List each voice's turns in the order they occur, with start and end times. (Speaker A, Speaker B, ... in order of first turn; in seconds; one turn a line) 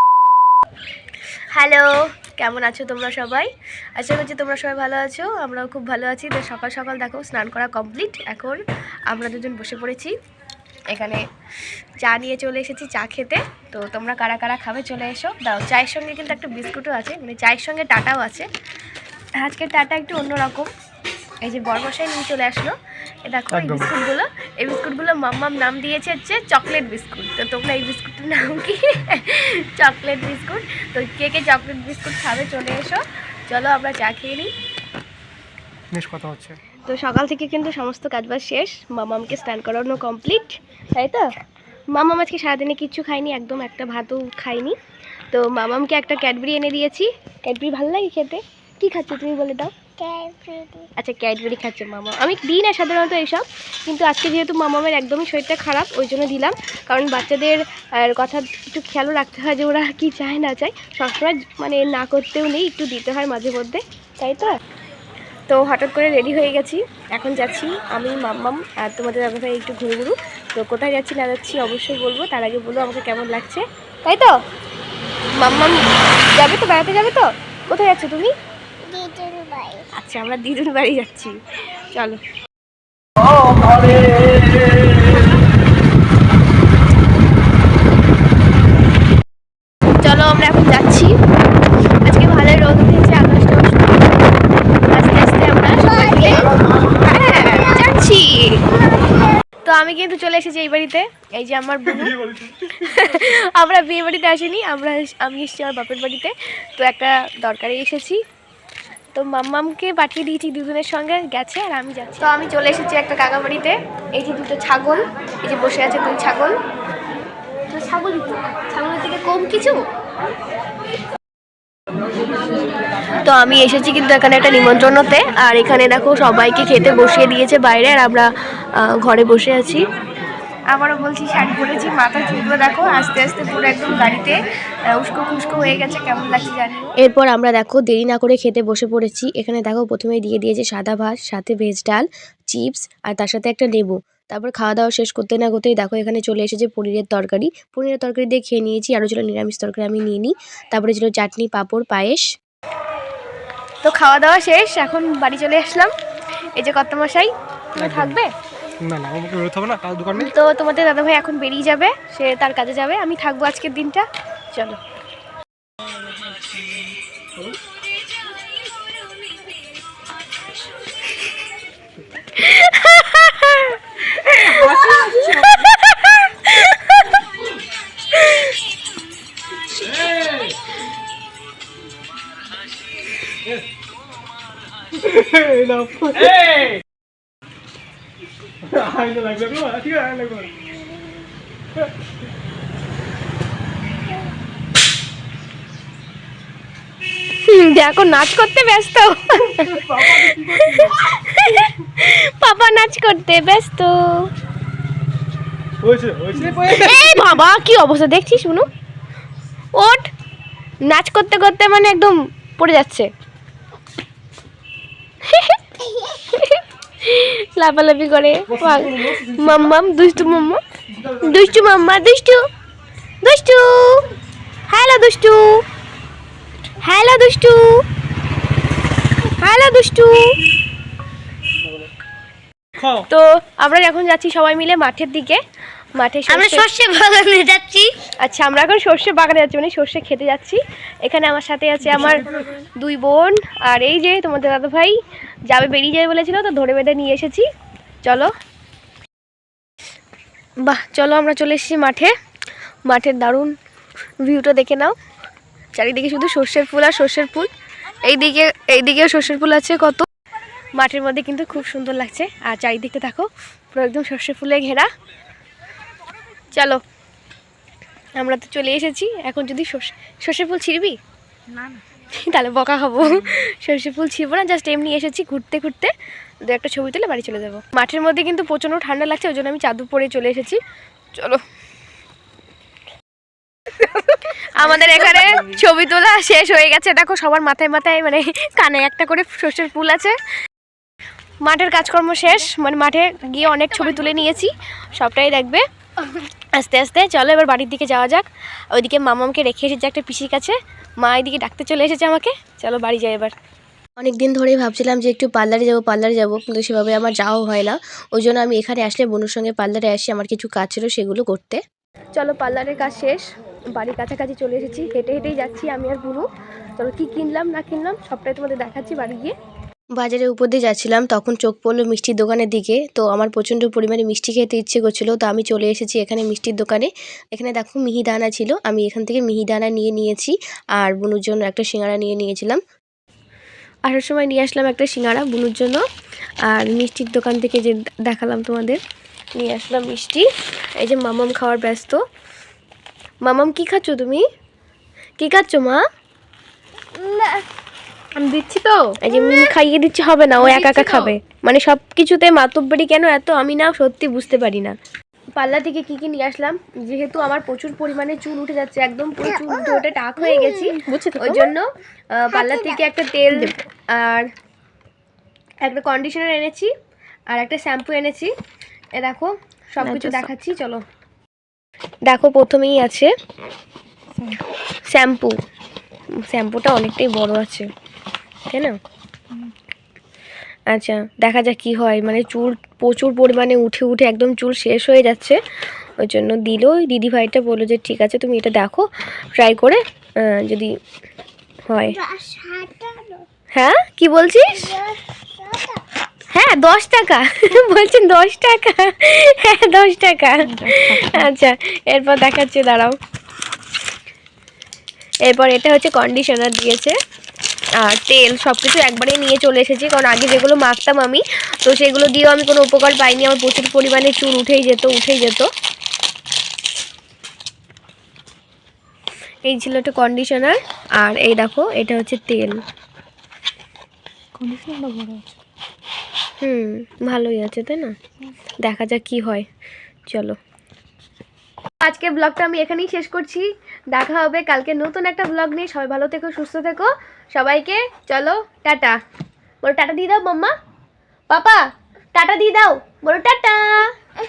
Speaker A: 1.5-10.2
Speaker A: 10.9-11.2
Speaker A: 12.0-18.5
Speaker A: 19.4-20.7
Speaker A: 21.4-34.5
Speaker B: 23.5-24.0
Speaker B: 35.9-36.6
Speaker A: 36.9-41.3
Speaker A: 41.9-44.8
Speaker A: 45.3-49.9
Speaker C: 50.0-50.9
Speaker A: 51.0-64.6
Speaker A: 65.5-74.4
Speaker A: 75.3-78.3
Speaker C: 78.8-79.9
Speaker A: 79.9-82.2
Speaker A: 90.0-98.7
Speaker A: 99.7-108.2
Speaker A: 109.2-116.6
Speaker A: 117.7-119.8
Speaker A: 123.2-129.9
Speaker A: 130.7-152.2
Speaker A: 153.8-155.9
Speaker A: 156.5-158.3
Speaker B: 157.8-158.2
Speaker B: 158.8-160.3
Speaker A: 160.1-164.8
Speaker A: 172.3-177.2
Speaker B: 174.4-175.6
Speaker A: 178.1-178.6
Speaker B: 179.9-180.6
Speaker B: 184.9-186.8
Speaker B: 188.6-190.6
Speaker A: 197.3-204.3
Speaker B: 199.5-201.0
Speaker B: 205.8-207.2
Speaker A: 206.7-208.7
Speaker A: 209.7-210.1
Speaker A: 210.8-213.1
Speaker A: 215.2-222.4
Speaker B: 218.5-220.2
Speaker B: 221.0-221.7
Speaker A: 223.2-224.1
Speaker A: 224.7-225.6
Speaker A: 226.8-227.8
Speaker A: 229.2-230.4
Speaker B: 232.8-233.1
Speaker A: 232.9-235.4
Speaker A: 236.0-236.7
Speaker C: 236.3-237.9
Speaker A: 238.2-247.5
Speaker B: 242.1-242.4
Speaker A: 248.0-248.3
Speaker A: 250.6-252.1
Speaker A: 252.9-253.6
Speaker A: 254.2-255.0
Speaker A: 255.7-257.5
Speaker A: 258.0-260.1
Speaker A: 260.8-264.9
Speaker A: 266.5-266.8
Speaker A: 268.2-271.0
Speaker A: 272.1-280.6
Speaker A: 281.1-281.4
Speaker A: 283.8-290.2
Speaker A: 291.4-295.7
Speaker A: 296.5-303.3
Speaker A: 304.0-311.6
Speaker A: 312.1-319.4
Speaker A: 320.0-332.6
Speaker A: 333.9-335.9
Speaker A: 336.4-338.8
Speaker A: 339.4-342.0
Speaker A: 343.2-344.2
Speaker A: 345.2-345.8
Speaker C: 346.9-347.5
Speaker C: 348.2-349.5
Speaker A: 349.0-354.8
Speaker C: 350.4-351.2
Speaker A: 355.4-364.3
Speaker C: 360.3-361.5
Speaker C: 362.3-362.8
Speaker A: 365.6-366.7
Speaker A: 367.3-368.3
Speaker A: 368.9-370.8
Speaker C: 369.9-370.1
Speaker A: 372.1-373.1
Speaker A: 374.9-375.4
Speaker A: 376.1-377.7
Speaker A: 378.5-378.8
Speaker A: 380.7-385.4
Speaker A: 386.0-390.7
Speaker A: 391.7-392.1
Speaker C: 391.9-393.3
Speaker A: 393.5-394.9
Speaker C: 394.7-395.8
Speaker A: 396.3-403.0
Speaker C: 400.5-400.9
Speaker A: 405.2-407.0
Speaker A: 407.8-415.5
Speaker A: 419.4-422.6
Speaker C: 424.4-425.3
Speaker A: 426.4-427.9
Speaker A: 428.6-429.5
Speaker A: 430.1-430.4
Speaker A: 431.8-439.0
Speaker A: 439.6-440.6
Speaker A: 441.3-444.0